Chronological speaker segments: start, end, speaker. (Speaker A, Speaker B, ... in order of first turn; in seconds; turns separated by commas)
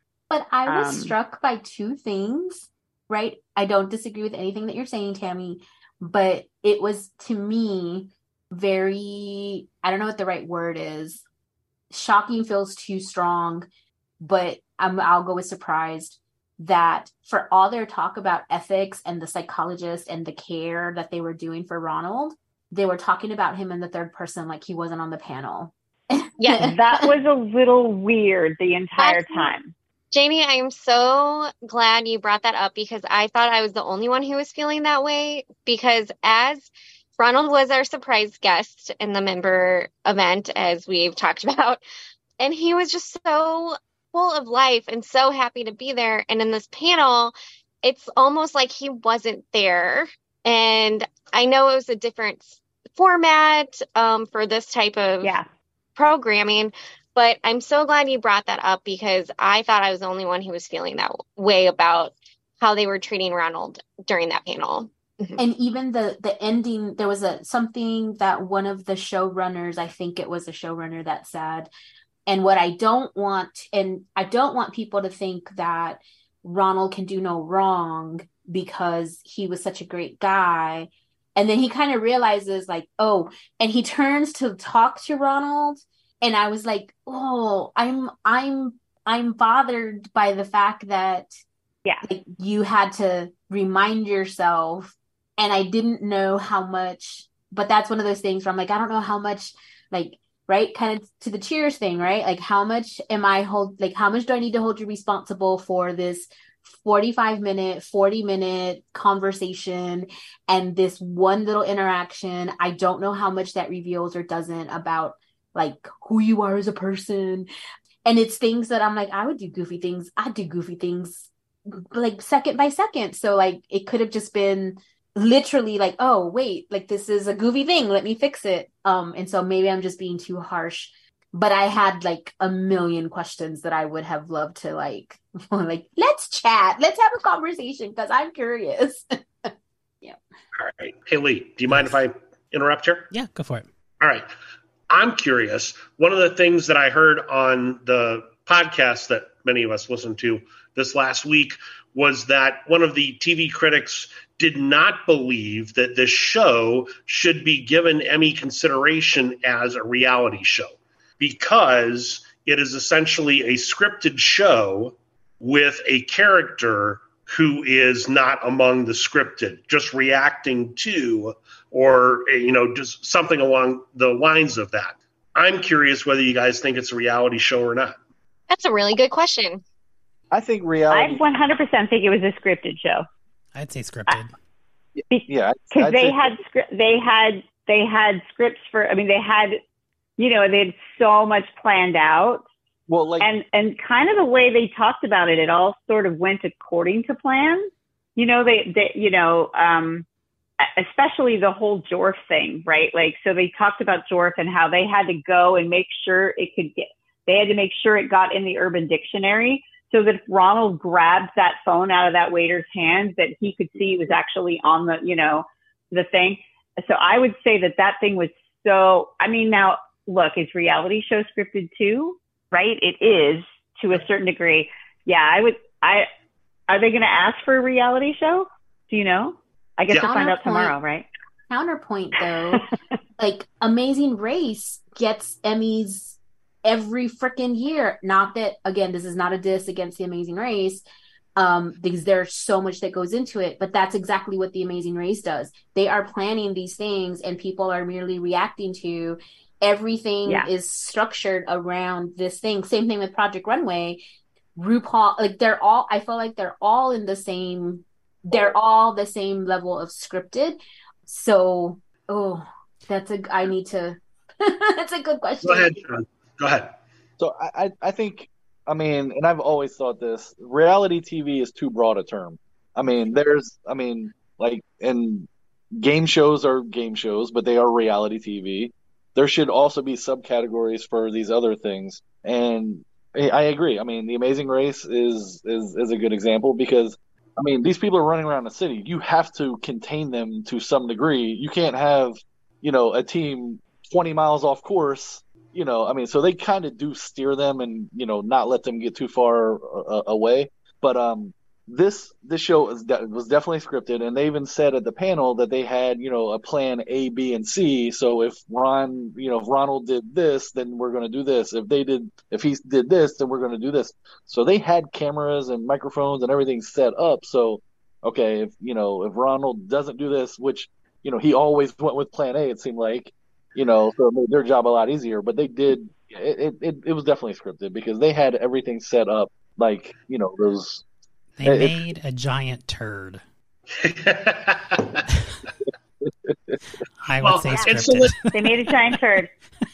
Speaker A: 0.3-11.2, Speaker B: 0.7-1.1, Speaker A: 11.9-13.7, Speaker A: 14.2-26.8, Speaker C: 26.4-26.7, Speaker B: 26.6-29.7, Speaker C: 29.0-29.5, Speaker C: 30.1-41.8, Speaker C: 42.4-55.3, Speaker C: 56.0-65.4, Speaker A: 65.4-71.7, Speaker A: 72.3-91.3, Speaker A: 92.0-117.5, Speaker A: 118.0-121.3, Speaker A: 121.9-139.5, Speaker D: 140.6-143.1, Speaker E: 141.7-142.0, Speaker E: 143.1-143.6, Speaker D: 144.0-144.3, Speaker D: 144.9-177.9, Speaker C: 178.5-179.6, Speaker F: 180.3-181.2, Speaker B: 180.9-183.1, Speaker E: 183.5-184.3, Speaker F: 184.9-186.3, Speaker B: 185.1-189.6, Speaker B: 190.2-192.4, Speaker F: 192.9-193.3, Speaker B: 193.2-200.0, Speaker B: 200.6-226.1, Speaker B: 226.7-231.1, Speaker A: 230.0-230.7, Speaker A: 231.5-232.7, Speaker A: 233.2-240.8, Speaker A: 241.3-254.0, Speaker A: 254.6-265.7, Speaker D: 265.4-266.7, Speaker F: 267.2-275.3, Speaker F: 275.8-330.8, Speaker E: 331.4-333.2, Speaker F: 331.4-331.8, Speaker D: 333.8-335.0, Speaker F: 336.0-336.6, Speaker E: 337.0-338.3, Speaker D: 337.2-338.3, Speaker B: 338.3-339.3